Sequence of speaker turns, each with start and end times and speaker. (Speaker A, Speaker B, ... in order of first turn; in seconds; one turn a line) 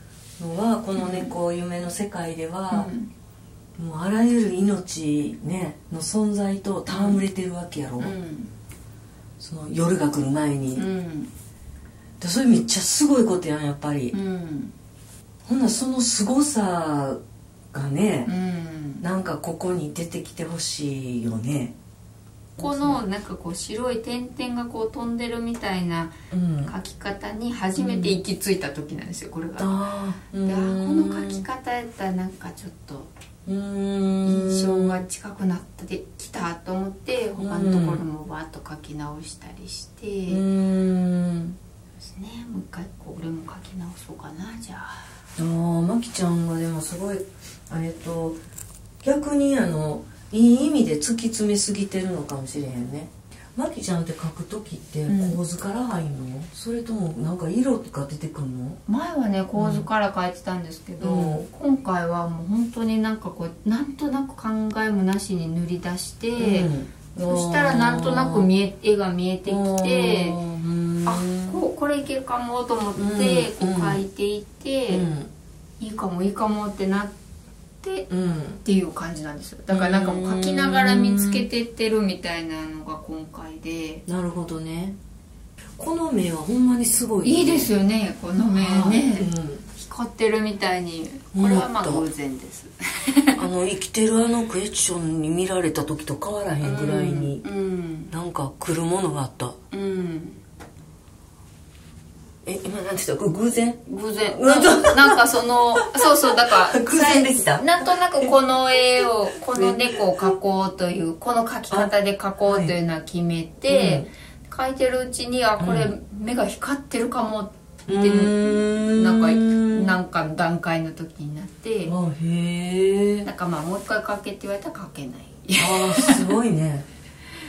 Speaker A: 0.4-2.9
Speaker B: 0.9-1.3
Speaker B: 2.7-3.1
Speaker A: 3.8-8.1
Speaker B: 6.9-7.2
Speaker B: 8.0-8.5
Speaker A: 9.4-10.8
Speaker B: 10.7-11.3
Speaker A: 12.2-14.2
Speaker B: 14.1-14.7
Speaker A: 15.4-17.2
Speaker A: 17.7-18.3
Speaker B: 18.2-19.0
Speaker A: 19.0-21.7
Speaker B: 22.6-29.9
Speaker A: 22.6-23.0
Speaker A: 26.3-26.7
Speaker A: 27.8-28.2
Speaker A: 29.6-31.4
Speaker B: 30.4-33.1
Speaker A: 33.5-35.0
Speaker B: 34.2-40.4
Speaker A: 37.4-38.0
Speaker A: 40.3-41.6
Speaker B: 42.0-45.1
Speaker A: 45.4-48.4
Speaker A: 49.0-58.8
Speaker B: 55.1-55.4
Speaker B: 58.9-70.4
Speaker A: 59.5-59.9
Speaker A: 61.0-61.5
Speaker A: 66.3-68.5
Speaker A: 69.5-71.6
Speaker B: 71.0-75.1
Speaker A: 73.0-74.0
Speaker A: 74.9-75.3
Speaker B: 75.8-77.2
Speaker B: 77.8-78.1
Speaker A: 78.1-78.6
Speaker B: 78.6-84.0
Speaker A: 79.7-81.5
Speaker A: 84.1-85.0
Speaker A: 85.8-87.7
Speaker B: 87.2-93.4
Speaker A: 88.5-89.7
Speaker A: 91.3-92.0
Speaker A: 93.4-97.4
Speaker B: 96.6-98.1
Speaker A: 98.1-99.6
Speaker B: 99.7-100.4
Speaker A: 102.4-108.3
Speaker B: 103.8-121.9
Speaker A: 109.0-110.3
Speaker A: 112.4-112.7
Speaker A: 113.7-114.1
Speaker A: 115.6-115.9
Speaker A: 117.9-119.9
Speaker A: 121.8-123.3
Speaker B: 123.2-126.4
Speaker A: 125.5-126.8